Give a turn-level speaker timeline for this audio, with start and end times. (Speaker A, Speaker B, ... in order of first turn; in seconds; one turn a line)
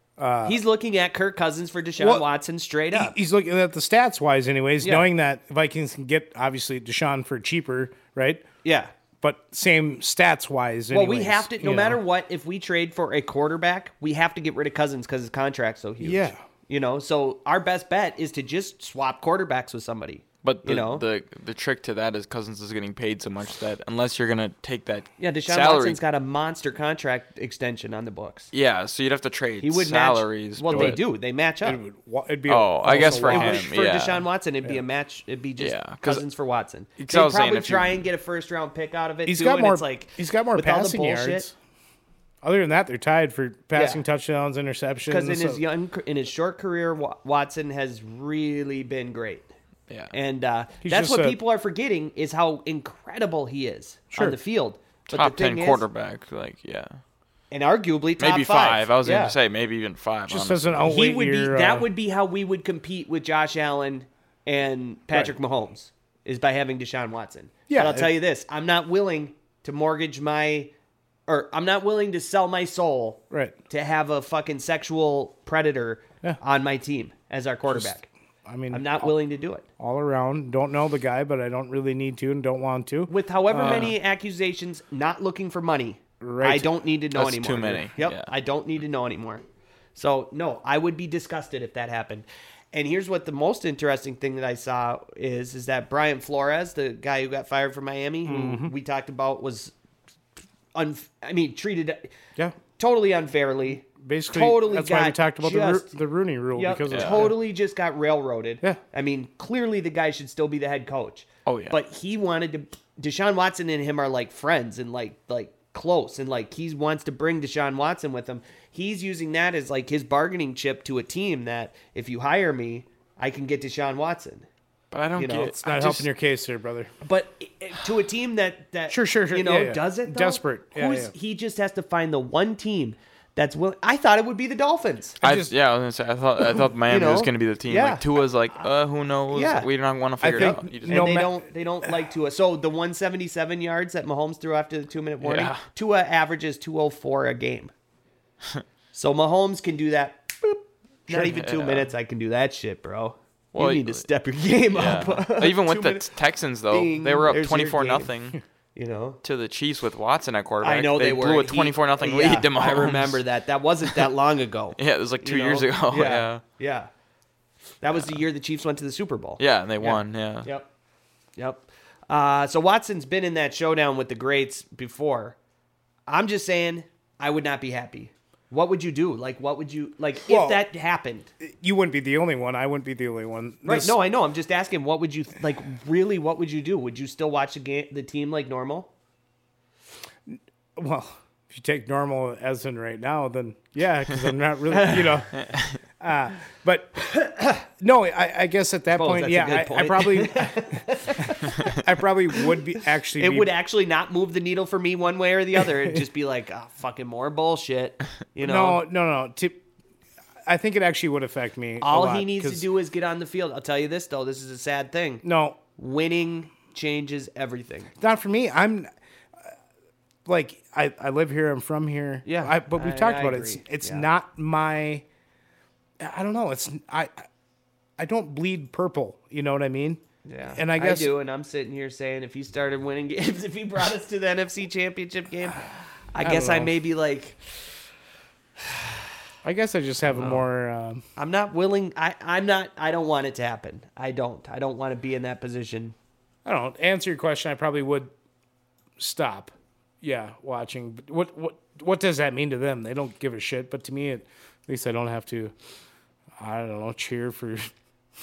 Speaker A: 0.2-0.6
Speaker B: 0.5-3.1
Speaker A: 2.0-2.3
Speaker A: 2.9-8.4
Speaker B: 4.8-5.1
Speaker B: 8.6-8.9
Speaker A: 9.2-12.0
Speaker B: 10.9-21.0
Speaker A: 16.0-16.4
Speaker C: 20.4-26.0
Speaker B: 25.2-28.5
Speaker C: 28.5-31.0
Speaker B: 29.6-31.8
Speaker A: 30.7-31.0
Speaker A: 31.6-33.7
Speaker C: 32.5-34.3
Speaker B: 32.9-41.5
Speaker C: 35.6-36.2
Speaker C: 37.0-38.1
Speaker A: 39.3-41.5
Speaker A: 42.4-45.6
Speaker B: 43.7-44.0
Speaker B: 45.1-49.5
Speaker B: 50.1-55.8
Speaker A: 50.8-51.4
Speaker A: 54.1-54.4
Speaker C: 55.1-57.0
Speaker B: 57.5-59.4
Speaker C: 58.2-60.9
Speaker A: 60.3-61.9
Speaker B: 60.9-70.7
Speaker A: 67.7-68.1
Speaker B: 71.3-78.1
Speaker A: 73.3-73.6
Speaker A: 78.5-79.1
Speaker B: 78.7-79.7
Speaker A: 79.8-83.9
Speaker B: 83.1-89.4
Speaker A: 86.2-86.7
Speaker C: 87.2-88.3
Speaker B: 90.0-99.7
Speaker A: 98.3-98.7
Speaker B: 100.7-102.1
Speaker B: 102.8-106.0
Speaker A: 104.0-107.4
Speaker B: 106.5-124.5
Speaker C: 106.9-107.3
Speaker C: 111.5-111.8
Speaker C: 124.9-126.1
Speaker B: 125.2-125.5
Speaker A: 125.6-126.9
Speaker B: 127.0-135.2
Speaker A: 128.9-131.1
Speaker A: 135.2-135.5
Speaker C: 135.2-141.2
Speaker B: 136.9-138.7
Speaker B: 139.3-139.7
Speaker B: 140.2-147.7
Speaker A: 140.2-142.0
Speaker C: 145.2-145.6
Speaker B: 148.9-156.1
Speaker C: 151.1-151.9
Speaker C: 153.5-154.1
Speaker C: 154.7-158.4
Speaker B: 156.7-158.1
Speaker B: 158.8-159.2
Speaker C: 159.2-163.2
Speaker B: 160.6-166.9
Speaker C: 164.8-166.4
Speaker B: 167.8-170.7
Speaker C: 169.4-170.5
Speaker B: 171.4-175.4
Speaker B: 176.1-181.3
Speaker A: 180.2-180.6
Speaker A: 181.4-184.0
Speaker B: 183.7-188.9
Speaker A: 190.3-197.1
Speaker B: 194.7-195.4
Speaker B: 197.2-197.5
Speaker A: 197.7-203.5
Speaker B: 198.9-201.8
Speaker B: 202.4-208.8
Speaker A: 208.4-209.6
Speaker A: 210.5-212.7
Speaker B: 211.8-215.2
Speaker A: 215.2-215.6
Speaker B: 215.8-217.9
Speaker A: 218.0-218.9
Speaker A: 220.2-225.1
Speaker B: 222.2-224.1
Speaker A: 226.0-227.3
Speaker A: 228.0-230.0
Speaker B: 230.2-237.5
Speaker A: 230.6-231.1
Speaker A: 236.2-236.7
Speaker B: 238.6-239.1
Speaker A: 239.4-241.0
Speaker B: 241.2-245.9
Speaker A: 246.4-248.1
Speaker A: 249.0-255.5
Speaker A: 256.4-257.7